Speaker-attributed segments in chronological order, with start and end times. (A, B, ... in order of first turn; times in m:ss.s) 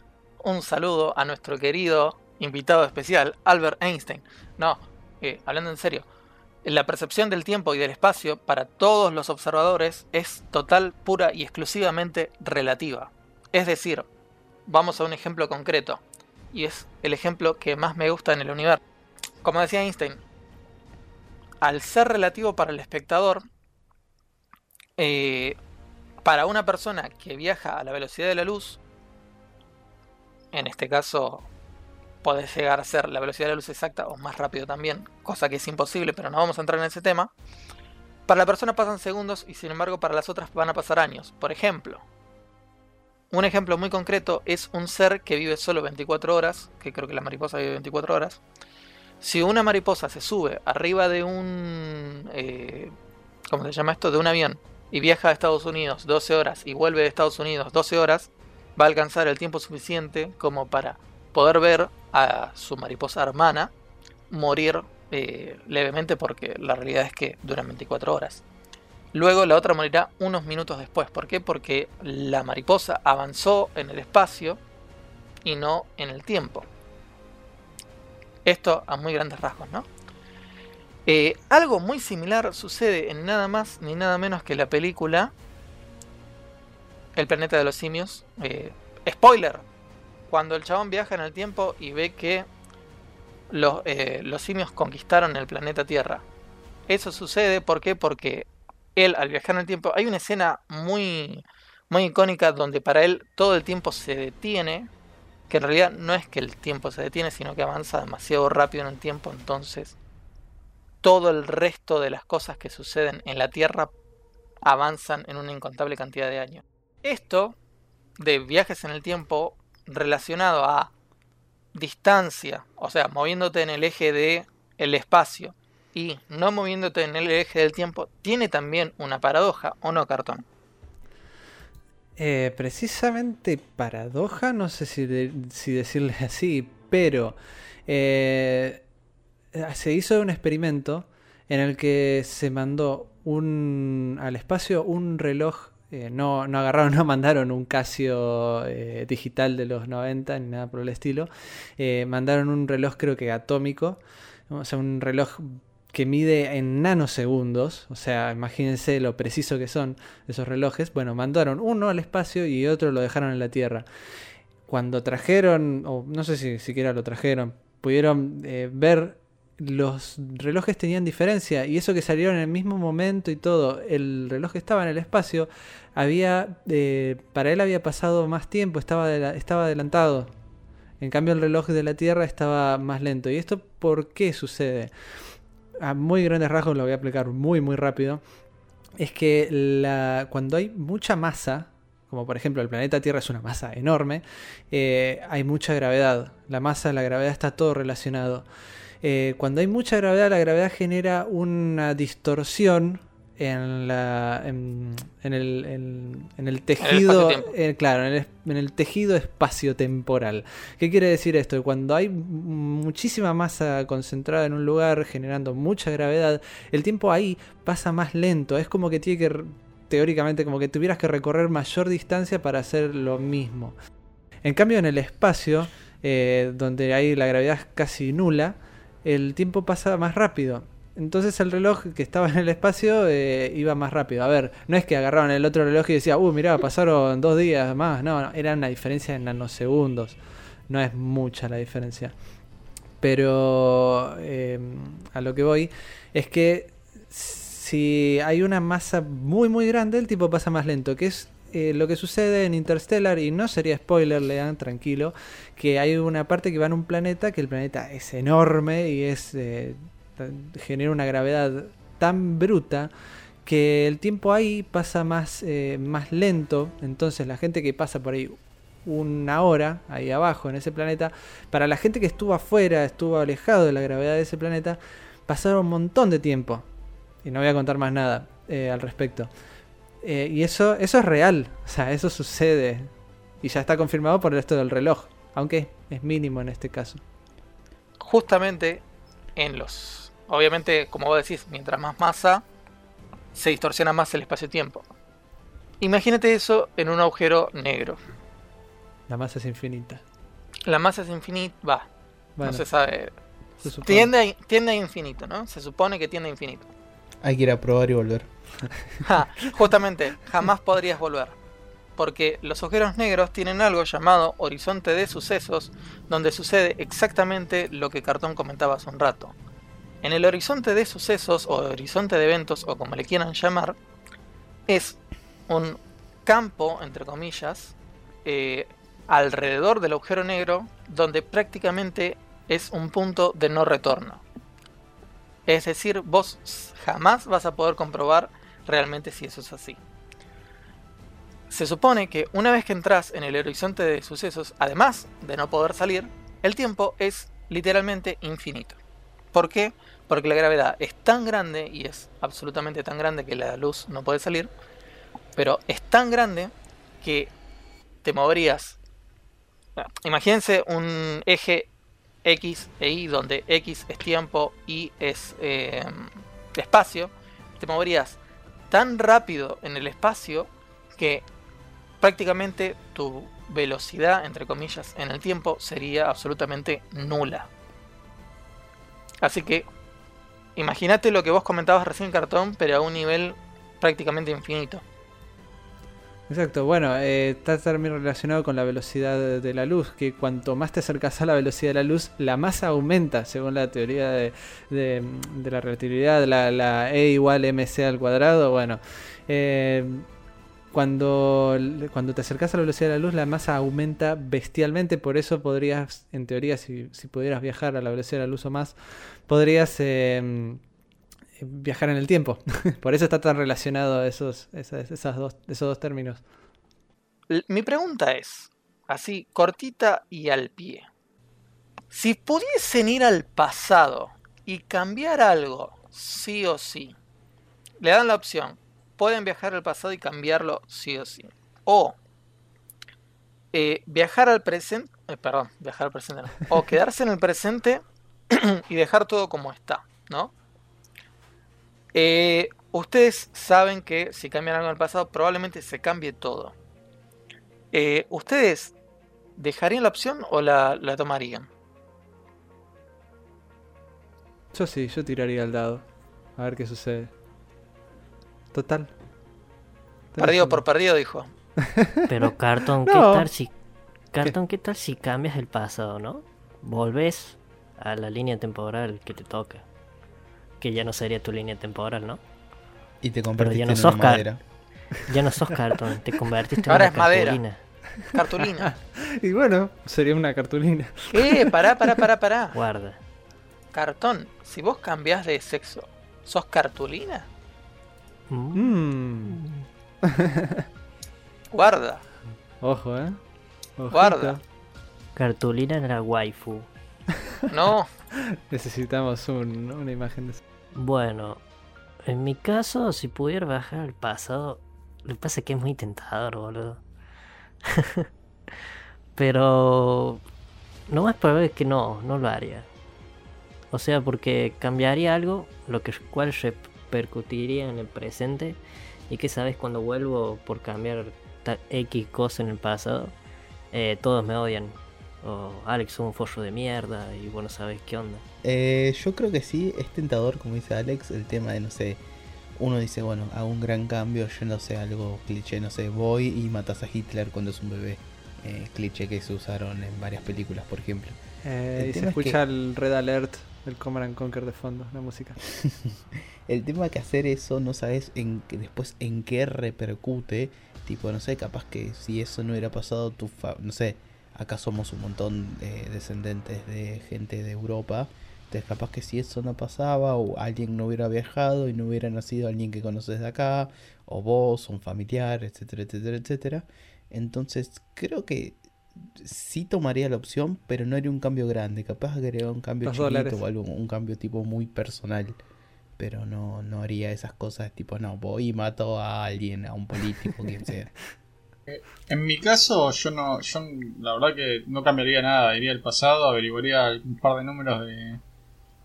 0:00.4-0:06.1 A
0:06.6-0:14.1 A
0:14.7-0:16.0 A
0:16.5-0:18.8 A
0:19.4-0:20.2 A
0:21.6-0:23.4 A
0:25.0-0:25.6 A
0:26.2-0:28.8 A
0:30.5-0:31.5 A
0:32.2-0:37.3 A
0:38.3-0:42.0 A
0:43.3-0:48.4 A
0:49.2-0:52.9 A
0:53.5-1:03.7 A
1:04.3-1:08.4 A
1:09.1-1:14.6 A
1:15.4-1:16.7 A
1:18.4-1:19.9 A
1:21.1-1:25.3 A
1:27.2-1:29.6 A
1:30.3-1:32.5 A
1:33.5-1:36.2 A
1:36.9-1:44.9 A
1:45.5-1:50.0 A
1:51.0-1:53.9 A
1:54.6-1:57.6 A
1:58.2-2:00.9 A
2:01.7-2:10.4 A
2:12.2-2:17.4 B
2:17.9-2:18.8 B
2:19.5-2:43.8 B
2:44.7-3:00.3 B
3:01.0-3:08.2 B
3:09.0-3:18.5 B
3:19.0-3:43.8 B
3:26.8-3:27.5 A
3:44.4-4:02.1 B
4:03.0-4:22.9 B
4:23.4-4:36.7 B
4:37.2-4:39.3 B
4:40.0-4:42.9 B
4:43.4-4:47.0 B
4:48.0-4:48.8 A
4:49.4-4:52.4 A
4:53.4-4:54.8 A
4:55.8-4:58.0 A
4:59.1-5:00.0 B
5:00.7-5:01.9 A
5:02.4-5:02.6 B
5:02.4-5:03.1 A
5:03.6-5:04.1 B
5:03.6-5:06.7 A
5:07.2-5:08.3 C
5:09.0-5:11.4 A
5:12.0-5:19.3 A
5:20.0-5:23.8 A
5:24.7-5:34.2 A
5:35.5-5:39.8 A
5:41.5-5:48.8 A
5:49.3-5:54.5 A
5:55.4-5:57.3 A
5:58.0-5:58.8 A
5:59.8-6:01.7 A
6:02.2-6:08.2 A
6:08.7-6:11.3 A
6:12.0-6:17.5 A
6:19.2-6:19.7 A
6:20.6-6:24.8 A
6:26.3-6:40.1 B
6:40.7-6:50.6 B
6:51.4-6:56.2 B
6:57.3-7:00.9 A
7:01.9-7:07.0 A
7:07.8-7:12.0 A
7:13.5-7:20.3 A
7:21.9-7:26.5 A
7:27.7-7:28.7 A
7:29.4-7:31.5 A
7:34.5-7:35.9 B
7:36.4-7:37.1 B
7:38.5-7:38.9 B
7:40.2-7:40.6 B
7:40.2-7:41.3 A
7:41.8-7:42.1 B
7:42.1-7:43.5 D
7:42.8-7:43.3 B
7:44.1-7:49.7 D
7:50.6-7:52.2 D
7:53.0-7:54.4 C
7:53.4-7:54.2 D
7:55.1-7:57.6 D
7:56.7-7:57.4 A
7:58.0-7:58.7 A
7:58.6-8:01.6 B
8:01.1-8:02.6 A
8:02.5-8:03.0 D
8:03.7-8:07.3 A
8:08.3-8:09.7 D
8:08.5-8:09.4 B
8:10.1-8:10.6 B
8:11.5-8:12.0 A
8:12.6-8:13.2 B
8:13.8-8:14.4 B
8:13.9-8:14.4 A
8:15.2-8:16.7 D
8:17.5-8:17.9 A
8:18.5-8:20.4 B
8:20.7-8:21.4 D
8:22.0-8:26.8 D
8:27.6-8:28.1 D
8:29.2-8:30.2 D
8:30.9-8:32.7 D
8:33.7-8:43.1 D
8:43.7-8:48.2 D
8:48.4-8:52.0 C
8:52.6-9:01.2 C
9:01.4-9:05.4 B
9:01.8-9:02.4 C
9:05.6-9:35.4 C
9:32.8-9:33.4 B
9:36.0-9:40.9 C
9:41.7-9:48.2 E